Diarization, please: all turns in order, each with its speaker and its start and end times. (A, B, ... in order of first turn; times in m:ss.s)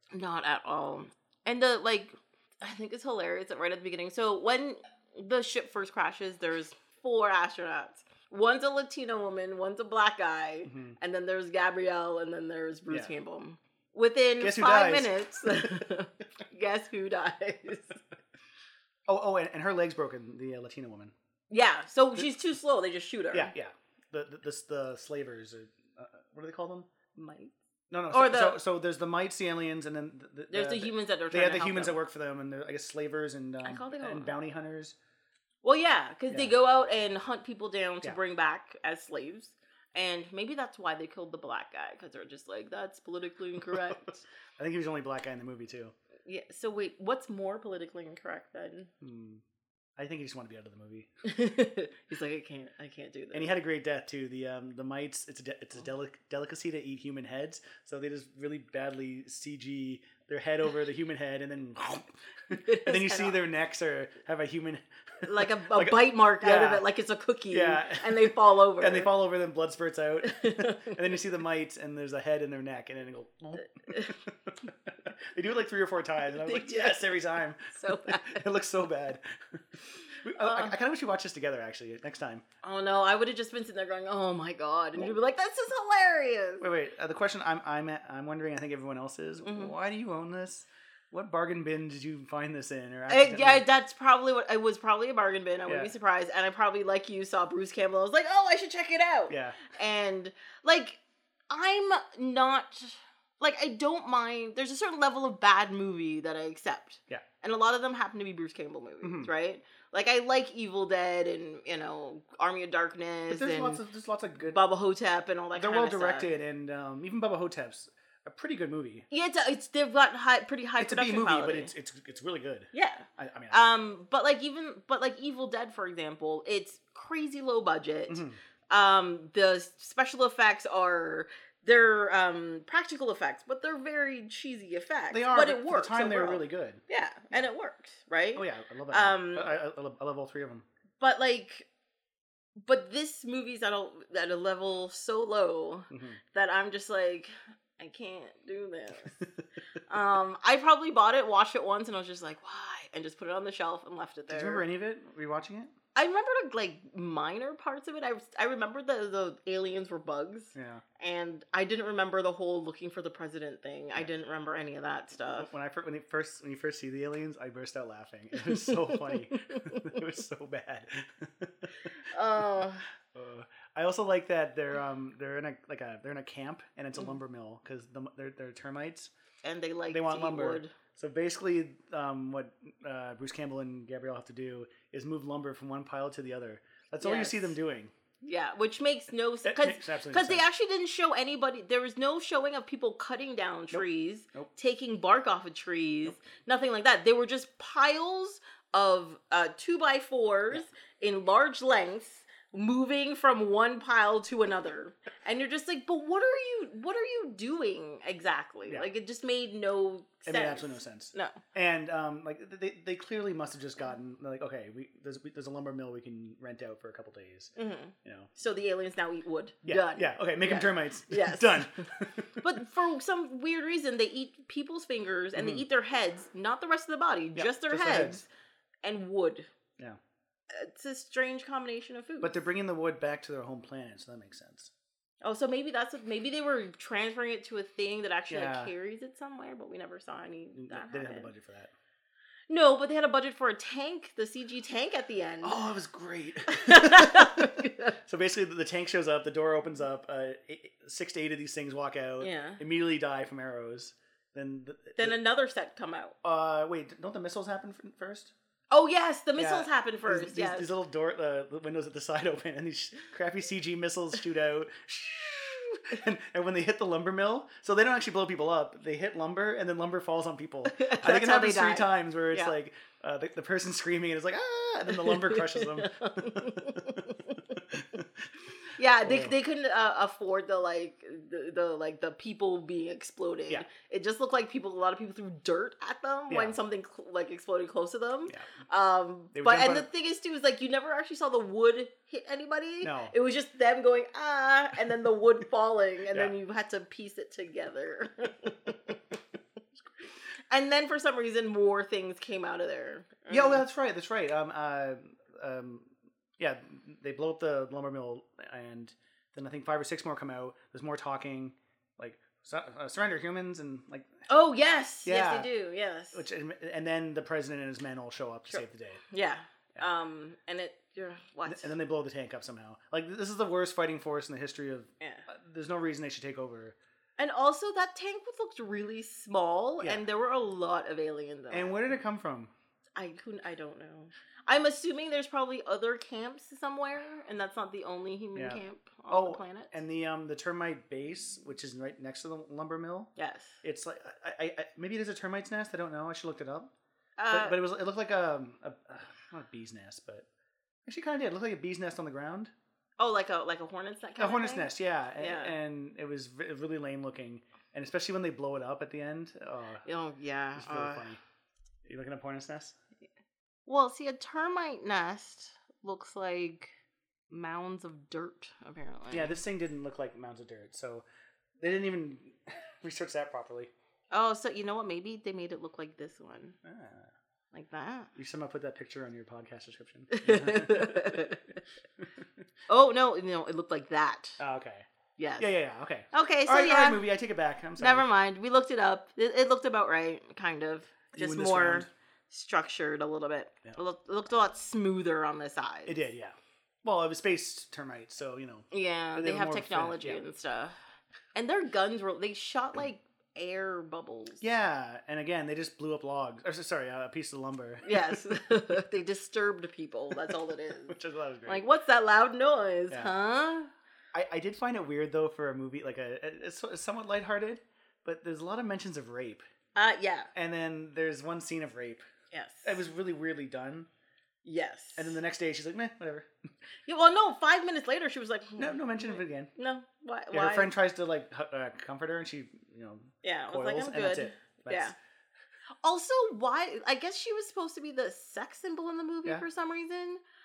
0:00.1-0:18.0 A
0:10.7-0:11.0 B
0:14.4-0:15.9 B
0:19.1-0:21.1 B
0:21.5-0:23.5 A
0:23.3-0:26.9 B
0:27.2-0:27.6 A
0:27.9-0:35.0 B
0:28.1-0:28.6 A
0:30.5-0:32.0 A
0:33.6-0:34.4 A
0:35.6-0:44.1 A
0:43.7-0:45.9 B
0:46.3-0:48.9 A
0:49.0-0:49.4 B
0:50.0-0:51.1 B
0:51.2-0:53.6 A
0:53.3-1:06.9 B
1:02.5-1:03.4 A
1:05.2-1:09.1 A
1:07.5-1:22.4 B
1:10.2-1:11.0 A
1:13.6-1:14.2 A
1:16.4-1:18.5 A
1:20.4-1:20.8 A
1:22.6-1:26.7 A
1:26.6-1:33.6 B
1:29.4-1:29.8 A
1:33.1-1:53.8 A
1:35.7-1:35.9 B
1:39.3-1:39.6 B
1:49.0-1:49.3 B
1:53.3-1:54.6 B
1:54.4-1:56.3 A
1:55.6-1:59.1 B
1:59.1-2:01.7 A
2:00.8-2:03.6 B
2:02.7-2:19.6 A
2:08.1-2:08.4 B
2:15.1-2:16.8 B
2:18.4-2:20.6 B
2:21.0-2:21.7 A
2:22.6-2:29.2 A
2:25.9-2:26.2 B
2:29.9-2:34.6 A
2:34.3-2:35.7 B
2:36.0-2:45.5 A
2:40.6-2:40.8 B
2:45.2-2:52.0 B
2:48.4-2:50.0 A
2:51.9-2:52.9 A
2:53.0-2:59.1 B
2:59.4-3:00.7 A
2:59.9-3:07.9 B
3:07.0-3:07.5 A
3:08.2-3:31.4 A
3:09.4-3:10.4 B
3:13.7-3:14.5 B
3:30.3-3:37.5 B
3:37.6-3:48.2 A
3:38.0-3:38.3 B
3:39.7-3:42.5 B
3:45.4-3:45.6 B
3:47.4-3:48.2 B
3:48.8-3:49.5 A
3:50.5-3:52.4 A
3:52.2-3:54.7 B
3:55.2-4:01.3 A
3:58.3-3:58.7 B
4:00.6-4:01.7 B
4:02.5-4:05.6 A
4:05.4-4:15.2 B
4:06.5-4:08.0 A
4:12.2-4:12.6 A
4:15.0-4:16.2 A
4:16.2-4:18.3 B
4:18.7-4:20.7 A
4:19.4-4:38.3 B
4:30.7-4:32.5 A
4:34.9-4:37.6 A
4:38.8-4:59.0 A
4:39.0-4:39.4 B
4:46.3-4:46.6 B
4:49.3-4:49.9 B
4:52.8-4:53.1 B
5:00.5-5:03.6 A
5:03.3-5:14.2 B
5:14.3-5:16.2 A
5:15.0-5:15.5 B
5:16.1-5:19.0 B
5:18.5-5:21.7 A
5:21.5-5:26.8 B
5:25.0-5:25.3 A
5:27.2-5:31.8 A
5:31.5-5:32.5 B
5:33.0-5:39.7 A
5:38.4-5:43.1 B
5:43.2-5:43.6 A
5:43.6-5:46.7 B
5:47.2-5:47.6 A
5:47.3-5:50.3 B
5:50.9-5:52.5 B
5:53.0-5:55.5 A
5:54.2-5:59.8 B
5:59.8-6:01.1 A
6:00.6-6:01.2 B
6:01.8-6:02.8 B
6:03.7-6:06.7 A
6:07.3-6:09.4 A
6:09.1-6:11.1 B
6:11.6-6:13.7 B
6:14.1-6:16.6 A
6:16.6-6:17.1 B
6:17.5-6:18.1 A
6:18.2-6:21.3 B
6:20.1-6:21.6 A
6:22.0-6:22.3 B
6:22.7-6:24.4 A
6:24.4-6:24.9 B
6:25.2-6:25.6 A
6:25.4-6:28.1 B
6:26.1-6:27.0 A
6:27.8-6:36.1 A
6:31.1-6:31.9 B
6:35.9-6:40.2 B
6:38.7-6:40.8 A
6:41.3-6:44.4 A
6:44.4-6:48.4 B
6:47.8-6:53.7 A
6:50.1-6:51.6 B
6:54.1-6:59.4 B
6:59.8-7:00.3 A
7:00.4-7:02.1 B
7:02.3-7:02.8 A
7:02.6-7:03.9 B
7:04.4-7:05.2 A
7:05.0-7:06.3 B
7:06.9-7:10.7 A
7:08.6-7:09.5 B
7:10.3-7:14.9 B
7:13.2-7:15.0 A
7:15.8-7:20.2 A